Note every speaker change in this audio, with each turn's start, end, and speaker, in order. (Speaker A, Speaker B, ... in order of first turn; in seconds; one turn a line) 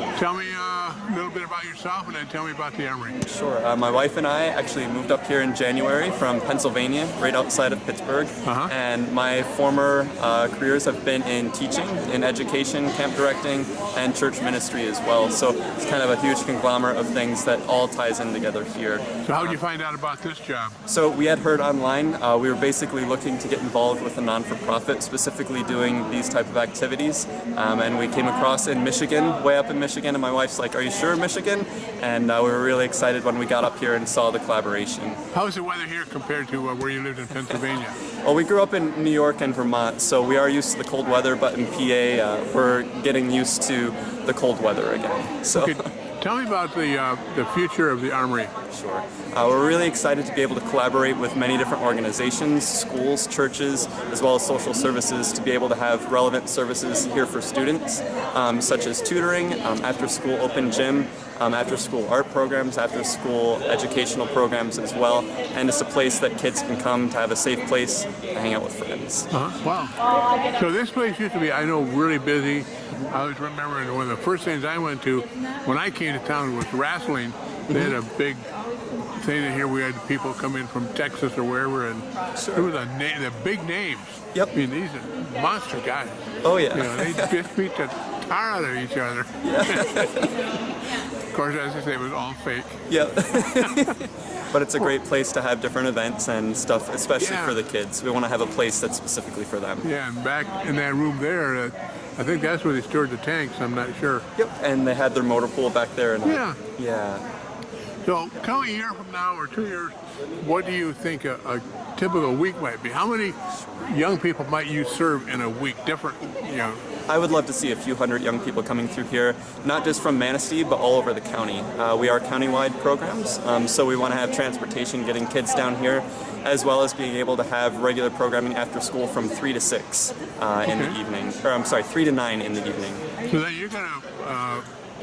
Speaker A: 0.1-3.2
Speaker B: 3.2-19.6
Speaker A: 8.4-8.7
Speaker A: 19.2-20.8
Speaker B: 20.9-35.2
Speaker A: 35.3-38.0
Speaker B: 38.2-45.9
Speaker A: 45.5-48.5
Speaker B: 48.7-69.3
Speaker A: 69.3-70.0
Speaker A: 70.5-78.4
Speaker B: 77.7-77.9
Speaker A: 79.1-86.2
Speaker B: 82.3-82.7
Speaker B: 86.4-87.4
Speaker A: 86.7-90.0
Speaker B: 89.4-90.4
Speaker A: 91.3-92.8
Speaker B: 92.9-99.9
Speaker A: 97.2-97.6
Speaker A: 99.8-104.2
Speaker B: 104.4-107.2
Speaker A: 106.2-106.6
Speaker A: 108.0-116.8
Speaker B: 113.5-113.9
Speaker B: 117.1-133.1
Speaker A: 130.6-131.0
Speaker A: 133.3-134.7